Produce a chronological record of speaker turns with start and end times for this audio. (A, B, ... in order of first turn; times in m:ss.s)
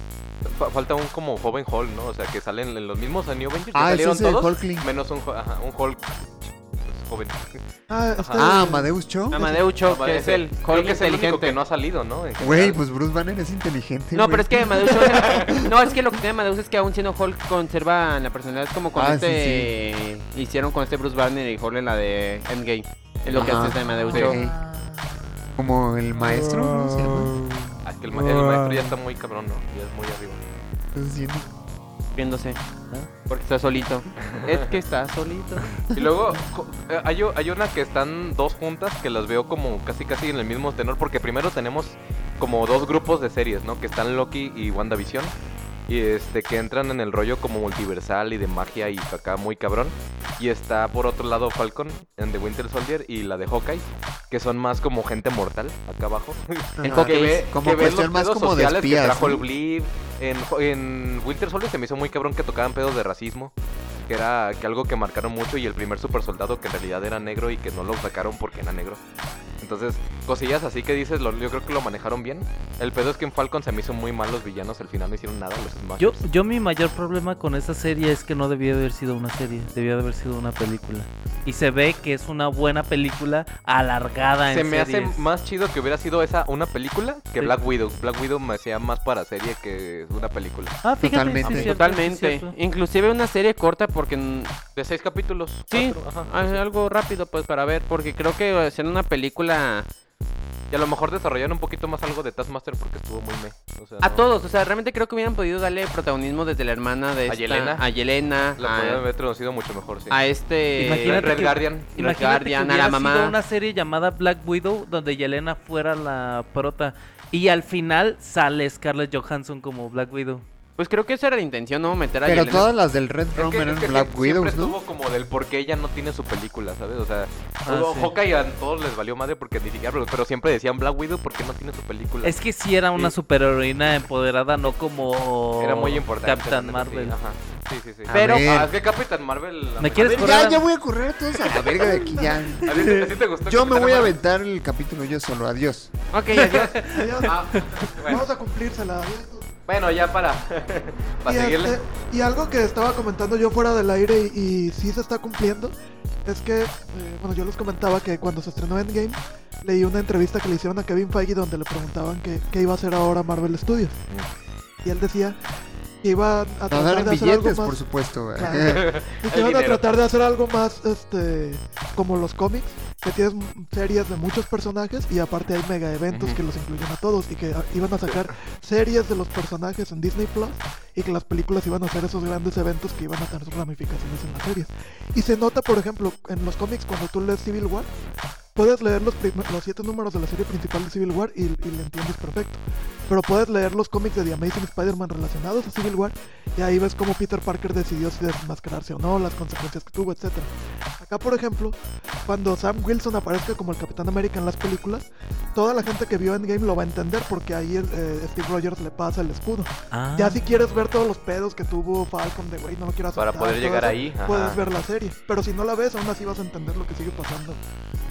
0:00.4-0:07.6 A
0:03.7-0:04.9 B
0:07.9-0:08.9 C
0:08.2-0:08.5 A
0:08.4-0:09.4 B
0:09.3-0:11.6 D
0:09.8-0:12.8 A
0:12.4-0:15.6 B
0:14.1-0:24.4 D
0:15.0-0:15.6 A
0:18.9-0:19.7 B
0:23.3-0:24.4 A
0:23.3-0:24.6 B
0:23.8-0:25.5 E
0:25.6-0:28.9 B
0:26.2-0:27.3 E
0:27.8-0:30.4 A
0:30.9-0:31.5 B
0:32.1-0:32.6 D
0:33.3-0:36.0 D
0:34.2-0:34.7 A
0:35.9-0:45.3 A
0:45.9-1:03.5 A
0:56.8-0:59.4 B
0:56.8-0:57.4 D
1:04.1-1:09.0 A
1:09.6-1:16.2 A
1:16.0-1:25.2 E
1:24.5-1:30.8 A
1:30.8-1:32.5 E
1:31.0-1:31.7 B
1:31.5-1:34.5 D
1:34.8-1:36.6 A
1:35.7-1:39.9 D
1:40.7-1:44.2 A
1:44.0-1:49.0 D
1:47.3-1:47.8 A
1:48.6-1:50.2 A
1:50.1-1:51.4 D
1:50.8-2:00.4 E
1:50.9-1:52.0 A
1:52.0-1:53.4 D
2:00.8-2:02.7 D
2:02.2-2:04.8 B
2:03.3-2:12.4 A
2:07.6-2:08.1 E
2:12.2-2:17.1 E
2:15.6-2:20.5 A
2:18.1-2:18.7 B
2:18.1-2:18.5 D
2:19.8-2:20.6 E
2:20.0-2:25.9 B
2:22.6-2:24.2 A
2:26.1-2:26.9 D
2:26.4-2:26.7 A
2:26.8-2:29.5 C
2:27.2-2:28.2 A
2:29.7-2:31.8 A
2:31.3-2:44.0 C
2:44.8-2:45.4 C
2:46.0-2:47.8 C
2:46.7-2:48.9 B
2:48.4-3:07.9 C
2:48.5-2:49.9 A
2:56.1-2:56.4 A
3:08.5-3:37.6 C
3:29.9-3:30.4 E
3:33.2-3:34.6 A